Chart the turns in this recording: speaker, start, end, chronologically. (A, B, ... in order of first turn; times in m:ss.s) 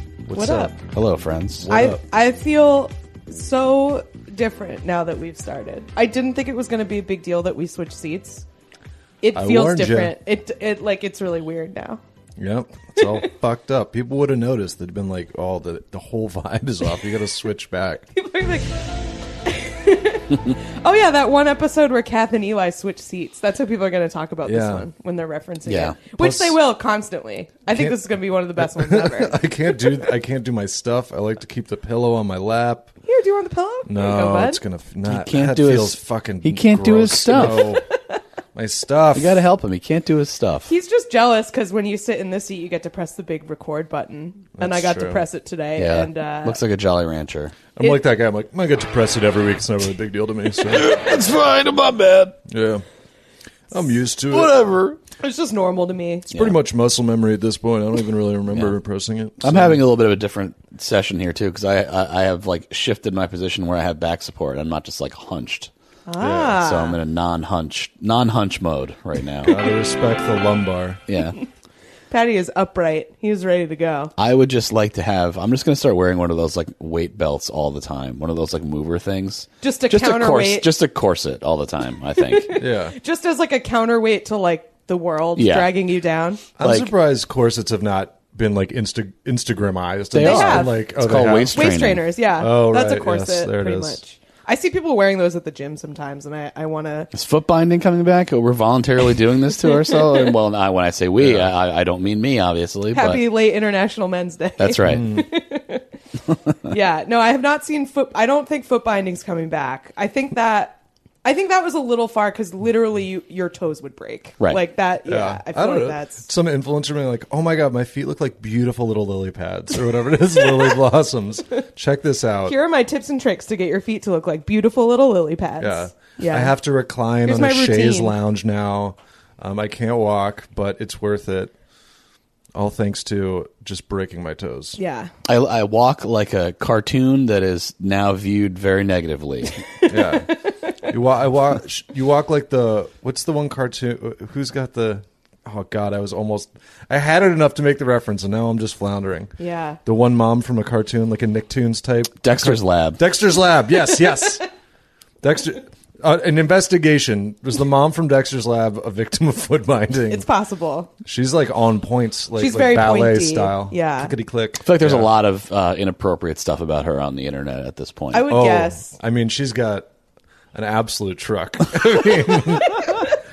0:00.2-0:00.8 A
0:00.3-0:00.7 B
0:00.9-0:01.7 C
0:01.6-0:02.0 A
0:01.7-0:08.4 B
0:09.2-0:12.0 B
0:09.3-0:10.1 A
0:12.4-0:18.1 A
0:18.1-0:29.4 B
0:24.5-0:24.9 A
0:25.6-0:26.0 C
0:26.2-0:26.6 A
0:27.7-0:32.9 A
0:33.0-0:34.6 B
0:33.9-0:37.8 A
0:35.1-0:37.8 C
0:38.6-0:39.4 A
0:39.1-0:40.7 C
0:40.7-0:46.6 B
0:44.6-0:45.2 A
0:45.8-0:47.6 C
0:47.8-0:51.0 A
0:50.6-0:52.4 C
0:52.4-0:52.8 A
0:53.7-0:54.8 A
0:54.3-0:55.0 C
0:55.2-0:56.3 B
0:56.3-0:59.8 A
0:59.4-1:05.7 C
1:06.1-1:07.0 B
1:06.2-1:06.6 A
1:06.6-1:09.6 C
1:09.4-1:11.0 A
1:11.1-1:11.4 C
1:12.1-1:14.1 B
1:14.2-1:22.6 C
1:19.6-1:20.7 B
1:22.2-1:26.4 B
1:22.6-1:22.9 A
1:25.4-1:25.7 C
1:26.6-1:34.0 A
1:26.6-1:26.9 C
1:30.1-1:32.0 C
1:30.2-1:30.8 B
1:31.5-1:37.1 B
1:37.1-1:43.2 C
1:39.6-1:40.3 B
1:41.2-1:41.5 A
1:42.9-1:45.9 B
1:44.6-1:45.1 C
1:44.8-1:45.3 A
1:46.6-1:56.2 B
1:55.1-2:02.6 A
2:02.4-2:06.6 B
2:05.6-2:11.5 A
2:07.2-2:08.2 B
2:12.5-2:14.8 A
2:14.8-2:15.1 B
2:15.2-2:19.6 C
2:19.9-2:20.3 A
2:20.8-2:29.3 A
2:29.4-2:29.8 B
2:29.8-2:34.4 A
2:32.2-2:33.0 C
2:35.2-2:40.3 A
2:40.1-2:40.9 B
2:41.0-2:45.1 A
2:42.4-2:44.1 B
2:44.6-2:48.3 C
2:48.1-2:48.9 B
2:48.2-2:49.9 A
2:50.5-2:53.1 A